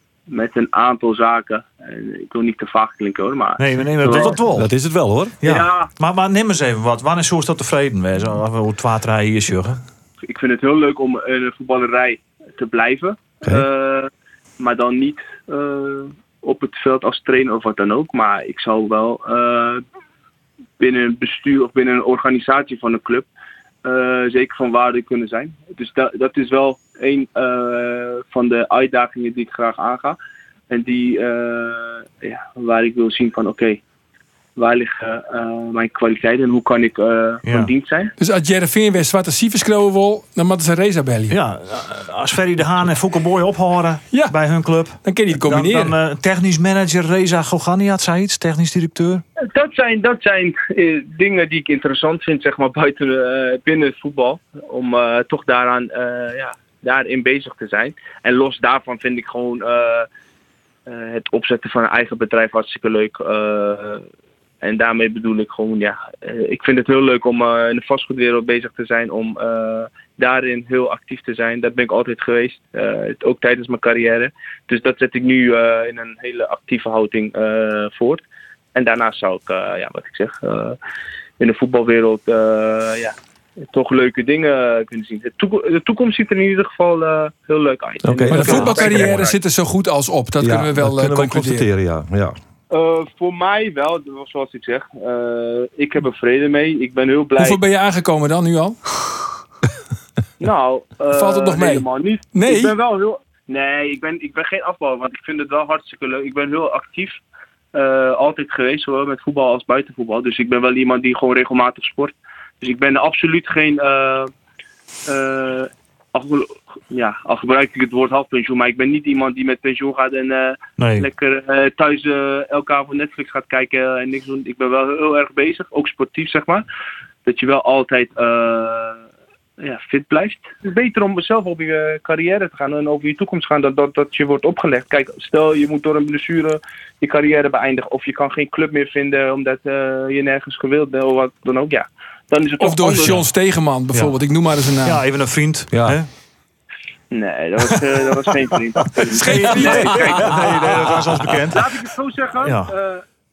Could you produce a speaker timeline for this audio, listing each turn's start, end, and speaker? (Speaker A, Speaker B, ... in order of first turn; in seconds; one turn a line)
Speaker A: 0.3-4.4
Speaker B: 3.6-4.7
Speaker C: 4.1-5.4
Speaker B: 5.4-9.8
Speaker A: 5.4-5.9
Speaker A: 10.2-19.8
Speaker A: 20.8-23.3
Speaker A: 23.8-30.2
Speaker A: 30.7-33.8
Speaker A: 34.6-38.1
Speaker B: 37.4-37.7
Speaker D: 38.2-41.4
Speaker B: 41.3-49.2
Speaker D: 45.0-45.9
Speaker A: 49.4-60.1
Speaker A: 60.9-64.1
Speaker A: 64.6-78.2
Speaker A: 78.8-80.8
Speaker A: 81.4-83.2
Speaker A: 83.7-89.4
Speaker C: 88.0-89.2
Speaker D: 88.3-91.7
Speaker C: 90.4-92.4
Speaker A: 92.7-97.6
Speaker D: 97.4-98.8
Speaker A: 100.4-107.2
Speaker D: 101.1-102.8
Speaker A: 107.7-114.3
Speaker A: 115.1-126.7
Speaker B: 120.8-121.1
Speaker A: 127.3-129.0
Speaker A: 129.6-143.2
Speaker D: 142.6-145.0
Speaker B: 143.9-144.2
Speaker B: 144.8-146.1
Speaker C: 145.7-146.0
Speaker A: 147.1-153.0
Speaker D: 149.1-150.4
Speaker B: 149.1-151.7
Speaker B: 152.4-152.7